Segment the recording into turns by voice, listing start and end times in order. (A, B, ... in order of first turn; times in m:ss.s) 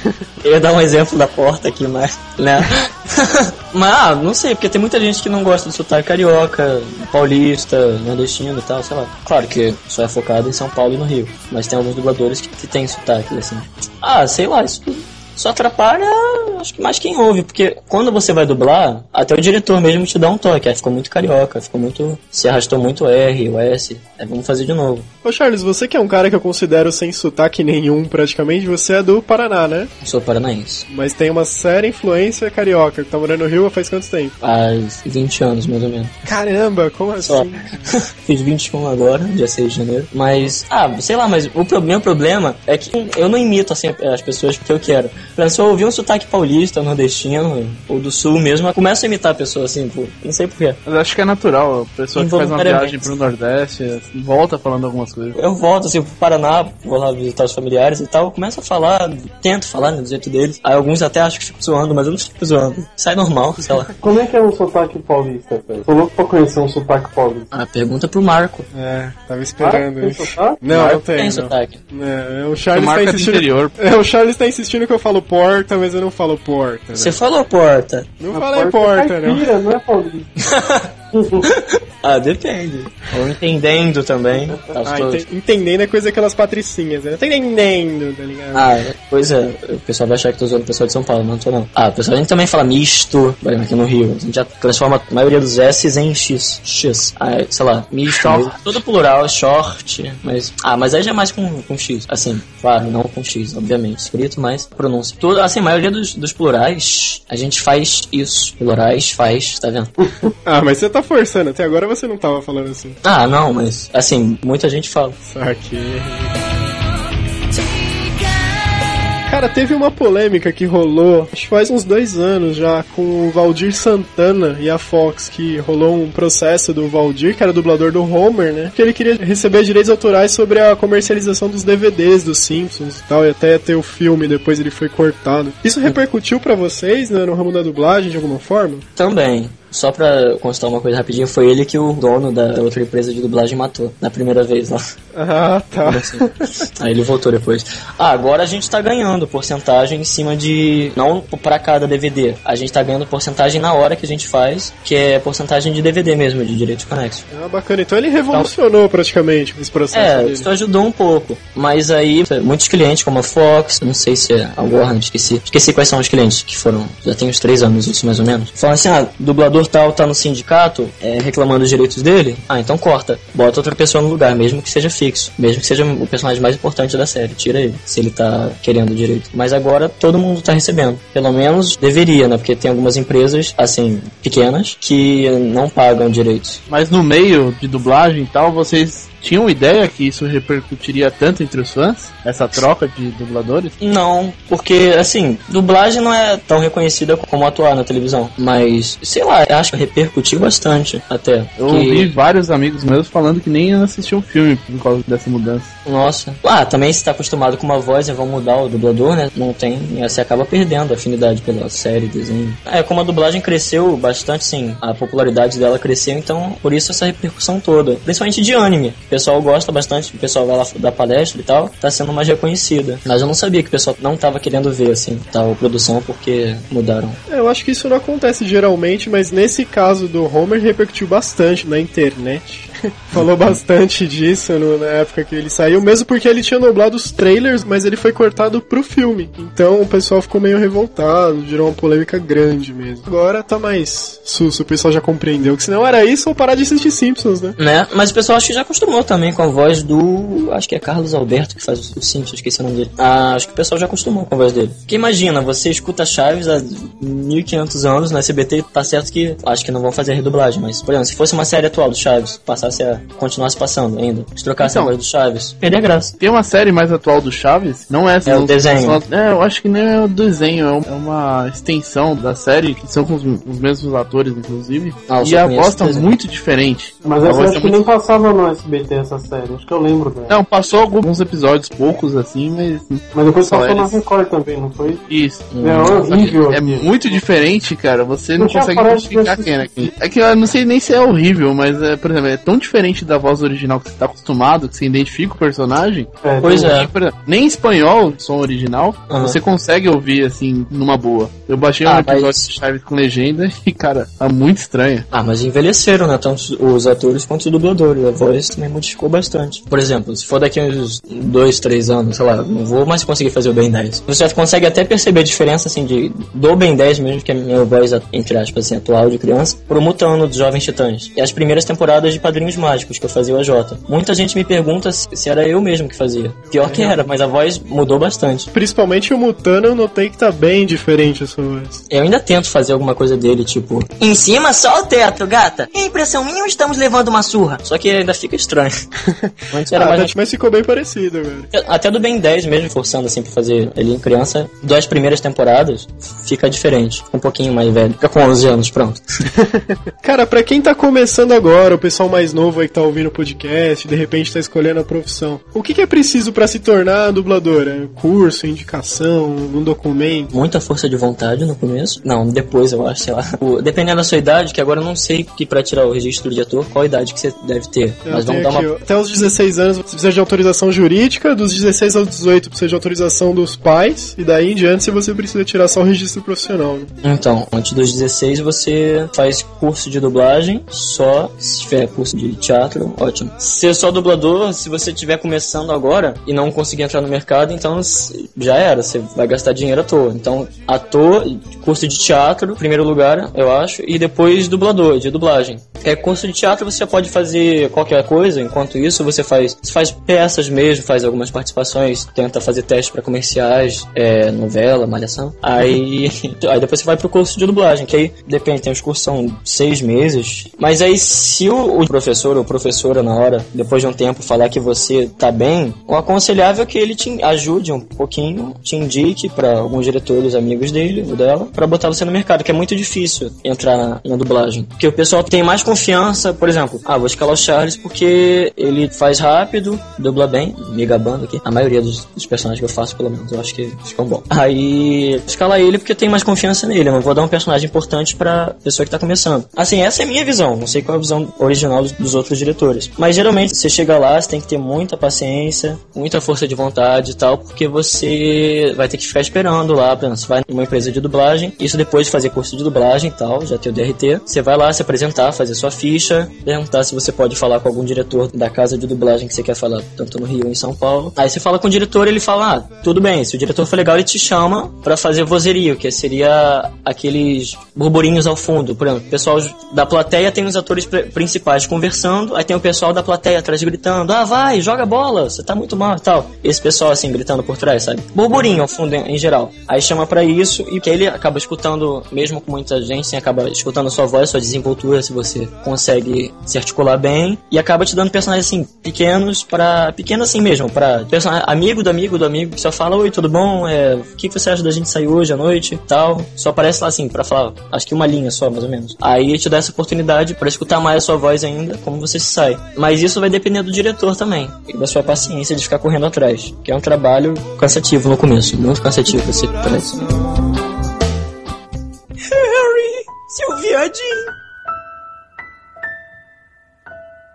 0:00.4-0:25.1 A
0:25.2-0:29.9 B
0:30.0-0:30.9 A
0:30.9-0:34.3 B
0:34.4-0:36.1 A
0:36.2-0:38.0 B
0:37.2-0:50.8 A
0:50.9-0:55.4 C
0:52.2-0:53.1 A
0:55.4-1:03.9 A
1:04.0-1:07.5 D
1:07.5-1:08.7 A
1:08.7-1:17.2 B
1:09.6-1:10.6 D
1:10.7-1:11.8 A
1:12.7-1:13.8 C
1:17.0-1:18.1 A
1:18.2-1:19.5 B
1:18.3-1:20.4 D
1:20.4-1:20.9 A
1:21.1-1:21.5 D
1:21.4-1:25.3 A
1:24.8-1:28.7 B
1:28.5-1:49.9 A
1:50.4-1:53.0 B
1:53.0-1:55.2 A
1:55.3-1:56.4 B
1:59.3-2:18.8 B
2:19.0-2:24.8 A
2:25.1-2:26.7 B
2:25.8-2:37.3 A
2:37.3-2:40.5 B
2:39.9-3:06.6 A
3:06.7-3:13.8 C
3:13.8-3:22.1 A
3:21.6-3:25.7 C
3:25.8-3:47.2 A
3:47.3-4:07.6 B
4:07.6-4:26.2 A
4:24.6-4:24.9 C
4:26.2-4:37.8 C
4:28.3-4:29.0 A
4:35.1-4:36.1 A
4:37.0-4:40.4 D
4:37.2-4:37.6 A
4:40.3-4:44.0 C
4:43.1-4:45.1 D
4:45.1-5:05.1 C
4:45.5-4:46.1 A
4:45.6-4:46.9 D
4:48.4-4:49.9 D
4:56.2-4:56.7 D
4:56.4-4:56.9 A
4:59.1-4:59.4 A
5:01.8-5:02.5 A
5:05.1-5:28.5 A
5:26.6-5:27.0 B
5:28.5-5:31.8 B
5:31.9-5:38.7 A
5:39.1-5:41.5 B
5:39.5-5:40.1 A
5:41.5-5:49.0 A
5:49.4-6:00.3 B
6:00.3-6:08.7 A
6:08.1-6:16.9 B
6:17.0-8:30.1 A
8:32.2-8:34.3 A